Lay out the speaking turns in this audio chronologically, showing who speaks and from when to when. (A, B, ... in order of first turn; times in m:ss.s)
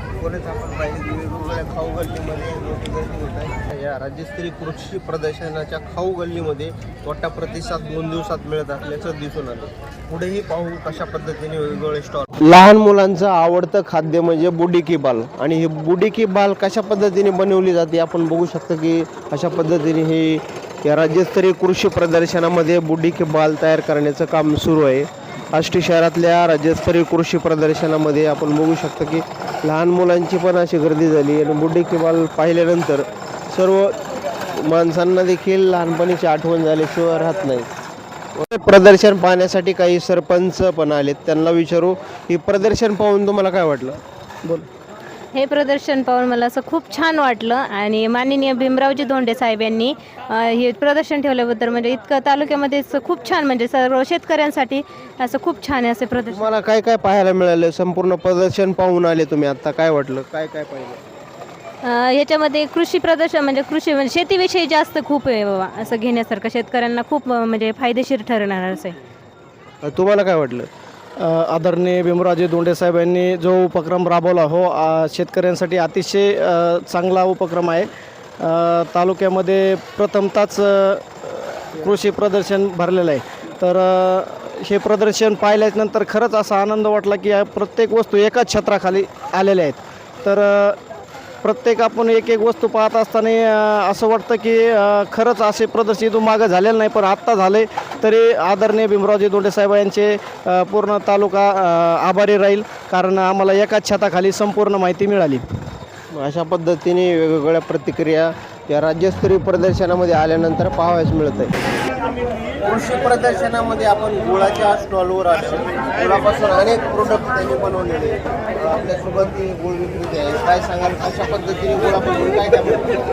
0:00.2-0:37.7 A
0:38.3-0:44.0 A
0:45.3-0:56.5 B
0:56.2-1:01.0 A
1:01.8-1:09.0 B
1:09.8-1:17.9 C
1:18.4-1:30.8 C
1:31.4-1:45.4 C
1:46.1-1:51.5 A
1:52.6-2:03.0 A